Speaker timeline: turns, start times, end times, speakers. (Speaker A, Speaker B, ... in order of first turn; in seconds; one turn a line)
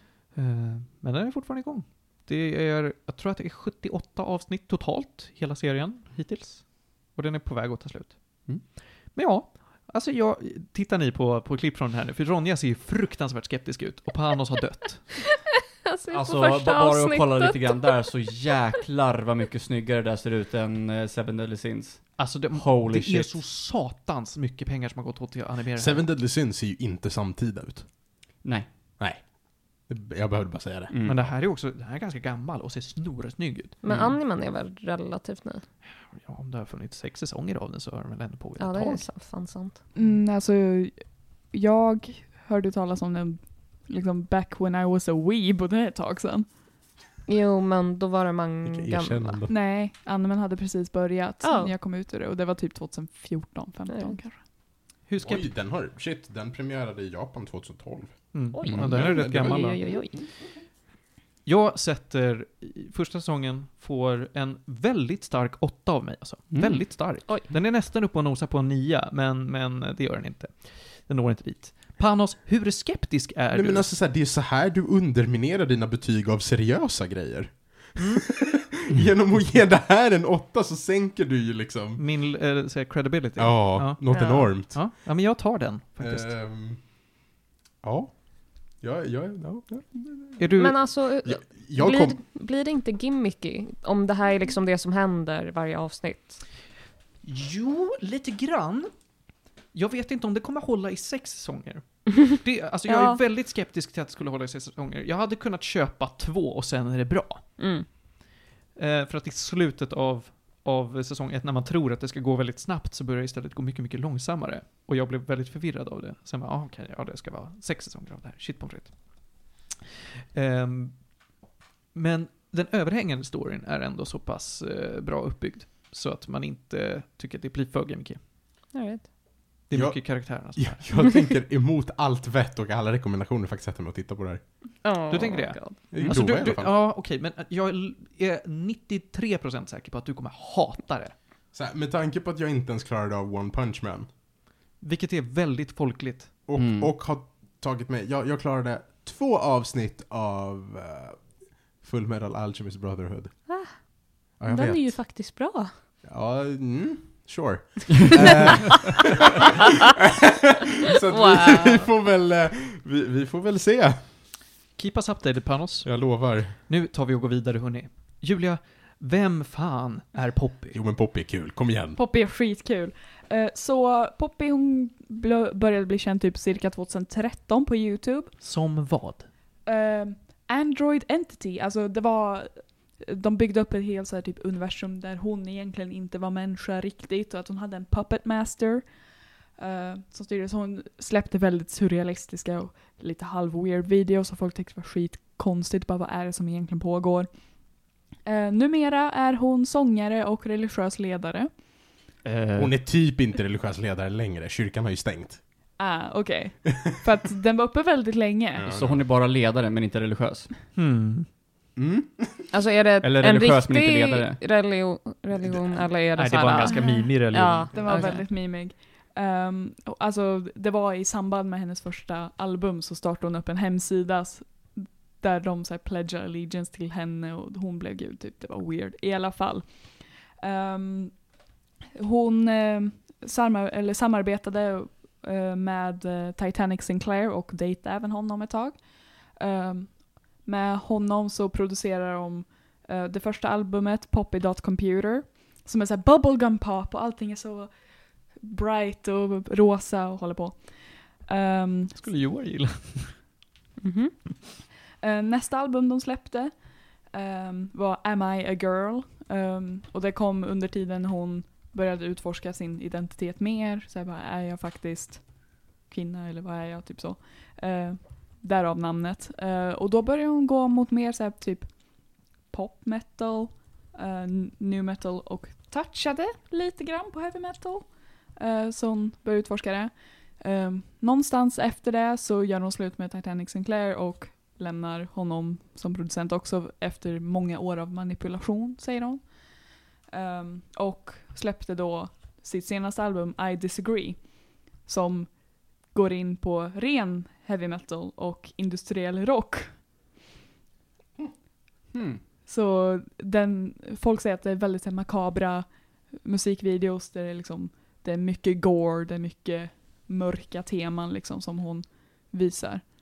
Speaker A: 0.3-15.2
Speaker B: 15.8-18.6
Speaker C: 16.1-23.4
Speaker A: 22.1-26.1
Speaker D: 25.8-28.0
Speaker C: 28.4-28.9
Speaker D: 29.0-31.3
Speaker C: 30.9-31.3
Speaker A: 31.1-33.8
Speaker B: 33.8-35.6
Speaker D: 33.9-34.1
Speaker A: 35.9-39.1
Speaker B: 38.6-39.8
Speaker E: 39.9-46.5
Speaker B: 47.3-49.4
Speaker D: 48.6-49.5
Speaker E: 49.5-54.4
Speaker B: 51.4-51.7
Speaker B: 53.9-54.2
Speaker A: 55.0-55.5
Speaker D: 55.2-60.3
Speaker A: 58.3-59.8
Speaker B: 58.5-60.4
Speaker C: 58.6-58.9
Speaker A: 61.4-73.9
Speaker C: 66.5-67.2
Speaker B: 67.2-67.5
Speaker D: 73.5-82.0
Speaker A: 78.0-78.3
Speaker A: 82.0-86.3
Speaker D: 83.4-85.0
Speaker B: 84.1-84.5
Speaker D: 86.0-90.4
Speaker A: 90.4-90.9
Speaker B: 90.5-96.5
Speaker D: 90.9-92.2
Speaker A: 97.2-108.0
Speaker B: 102.9-103.2
Speaker B: 107.6-107.9
Speaker A: 108.8-119.6
Speaker A: 120.3-121.4
Speaker A: 121.9-128.2
Speaker B: 128.7-129.1
Speaker A: 129.7-131.1
Speaker D: 129.7-134.8
Speaker B: 134.8-136.1
Speaker A: 135.1-141.2
Speaker D: 135.9-136.7
Speaker D: 141.5-144.1
Speaker A: 144.8-146.4
Speaker D: 146.4-155.0
Speaker C: 146.5-146.9
Speaker B: 153.5-155.7
Speaker D: 156.0-159.1
Speaker D: 160.8-164.2
Speaker B: 161.1-161.9
Speaker A: 164.8-170.8
Speaker D: 165.8-166.6
Speaker D: 170.7-172.0
Speaker E: 171.9-178.3
Speaker A: 178.4-179.3
Speaker E: 179.6-201.6
Speaker C: 202.2-202.9
Speaker D: 202.6-205.8
Speaker E: 205.8-208.7
Speaker D: 208.6-209.1
Speaker C: 208.6-210.5
Speaker A: 210.7-211.3
Speaker D: 211.8-212.6
Speaker B: 212.5-218.2
Speaker C: 213.0-214.8
Speaker D: 215.4-215.7
Speaker A: 216.1-218.1
Speaker E: 216.6-252.1
Speaker A: 251.9-253.3
Speaker B: 253.8-254.2
Speaker E: 255.0-299.8
Speaker C: 301.9-302.2
Speaker E: 302.4-312.8